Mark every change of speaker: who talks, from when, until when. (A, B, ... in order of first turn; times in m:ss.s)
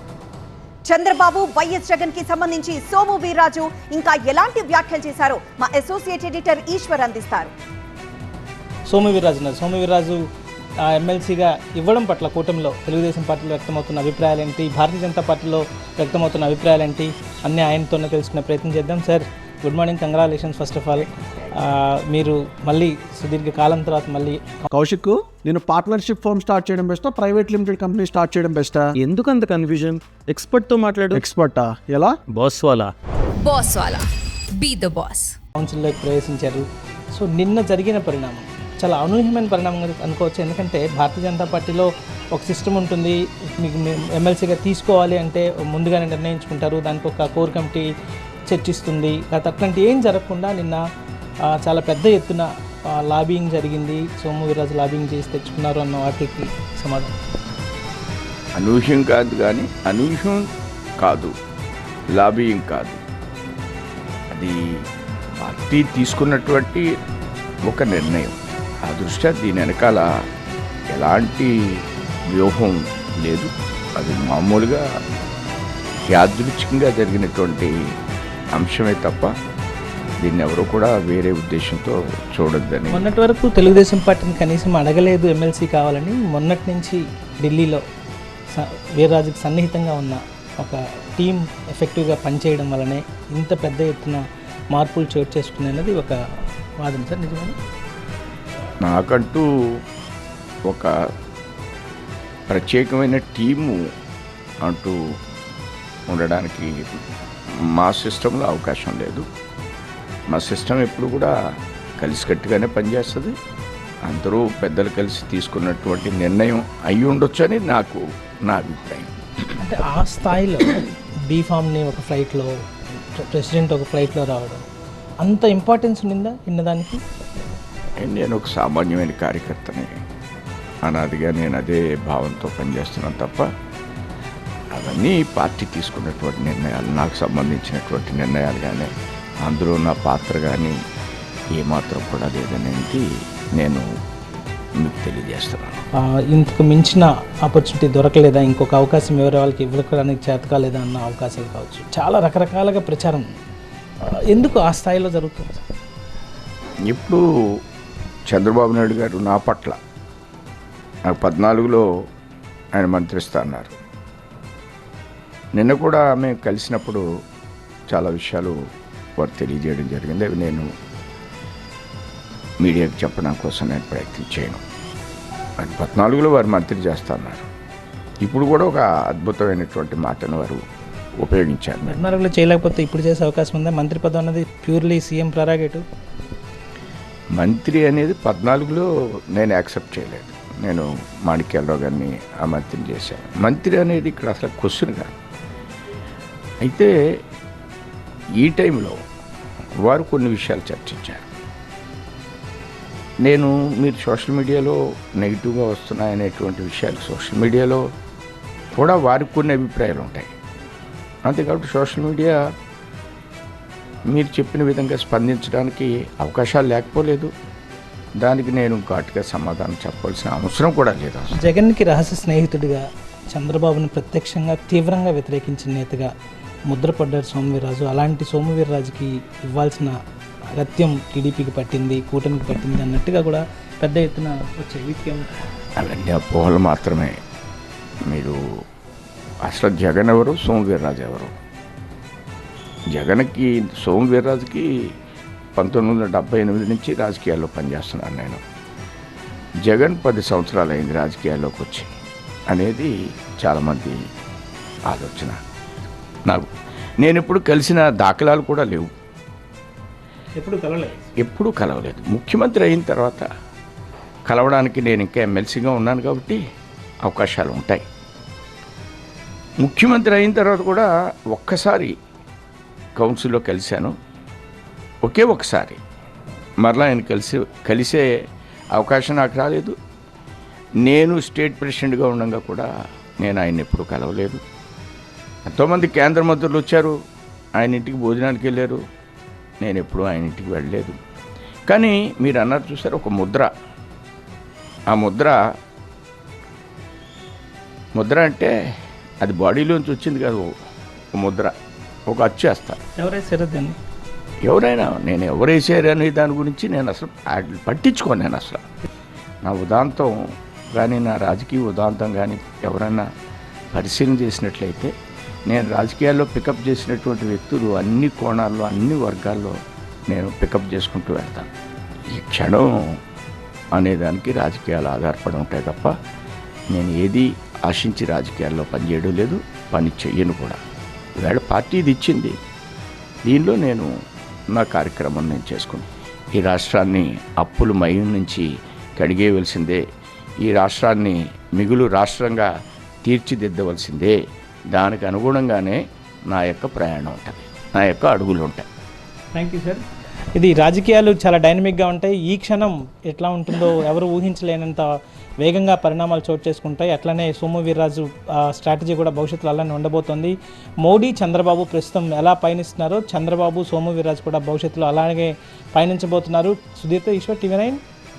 0:00.9-0:07.5 A
0:08.9-0:10.2 B
0:10.9-0:24.6 B
0:24.7-0:29.0 C
0:29.0-0:31.2 D
0:31.1-0:32.2 C
0:32.3-0:32.9 D
0:33.4-0:35.4 E
0:35.6-0:47.9 B
0:48.5-0:50.8 B
0:51.5-0:57.1 B
0:58.6-1:00.5 F
1:01.0-1:01.3 F
1:02.1-1:03.0 F
1:04.3-1:04.8 F
1:05.4-1:06.8 F
1:07.7-1:10.1 F
1:10.9-1:11.8 F
1:12.3-1:14.8 F
1:16.1-1:17.7 F
1:18.6-1:19.3 F
1:20.2-1:23.1 F
1:22.9-1:27.8 B
1:28.5-1:36.2 B
1:36.8-1:37.6 B
1:38.9-1:39.8 F
1:42.5-1:43.9 F
1:44.6-1:45.1 F
1:46.1-1:46.8 F
1:47.7-1:49.3 F
1:50.3-1:51.4 F
1:52.0-1:53.4 F
1:54.1-1:59.5 F
1:59.6-2:04.6 B
2:05.2-2:07.0 B
2:08.0-2:10.0 F
2:10.8-2:13.5 F
2:14.7-2:18.9 F
2:19.4-2:20.8 F
2:21.6-2:23.0 F
2:23.6-2:23.9 F
2:24.8-2:25.8 F
2:26.0-2:33.3 B
2:34.0-2:35.6 B
2:36.9-2:37.2 F
2:38.3-2:39.8 F
2:41.1-2:41.8 F
2:42.8-2:43.7 F
2:45.6-2:47.0 F
2:47.9-2:48.6 F
2:49.2-2:50.7 F
2:52.6-2:54.6 F
2:55.6-2:57.5 F
2:58.2-3:00.6 F
3:01.2-3:02.0 F
3:01.9-3:05.8 B
3:07.4-3:15.1 F
3:16.6-3:16.9 F
3:18.4-3:19.0 F
3:19.8-3:21.3 F
3:23.2-3:27.8 F
3:28.8-3:30.3 F
3:31.3-3:32.4 F
3:34.1-3:37.3 F
3:38.2-3:41.4 F
3:41.4-3:46.1 B
3:46.7-3:50.0 B
3:50.6-3:55.3 B
3:55.8-3:57.2 F
3:58.1-3:58.4 F
3:59.4-4:01.4 F
4:02.9-4:04.7 F
4:05.6-4:08.4 F
4:09.6-4:11.9 F
4:12.5-4:14.0 F
4:14.9-4:15.4 F
4:17.0-4:18.9 F
4:20.4-4:21.1 B
4:21.2-4:23.3 F
4:24.3-4:26.4 F
4:27.0-4:27.8 F
4:29.6-4:31.9 F
4:33.0-4:33.9 F
4:35.0-4:35.8 F
4:36.6-4:38.1 F
4:38.8-4:39.8 F
4:40.8-4:42.7 F
4:43.2-4:44.4 F
4:45.5-4:47.0 F
4:47.6-4:48.8 F
4:49.6-4:51.0 F
4:51.7-4:53.5 F
4:54.9-4:55.4 F
4:58.0-4:58.5 F
4:59.2-5:00.5 F
5:01.2-5:01.5 F
5:02.1-5:02.8 F
5:03.0-5:03.8 B
5:04.4-5:08.6 F
5:09.4-5:10.1 F
5:10.8-5:13.1 F
5:13.7-5:14.9 F
5:15.5-5:19.6 F
5:20.1-5:21.5 F
5:22.1-5:23.0 F
5:23.8-5:25.9 F
5:26.7-5:30.6 F
5:31.2-5:32.4 F
5:33.3-5:33.9 F
5:34.5-5:38.5 F
5:39.0-5:39.8 F
5:40.4-5:42.5 F
5:43.0-5:44.2 F
5:44.7-5:48.7 F
5:49.3-5:49.8 B
5:50.3-5:54.9 B
5:55.4-6:07.8 B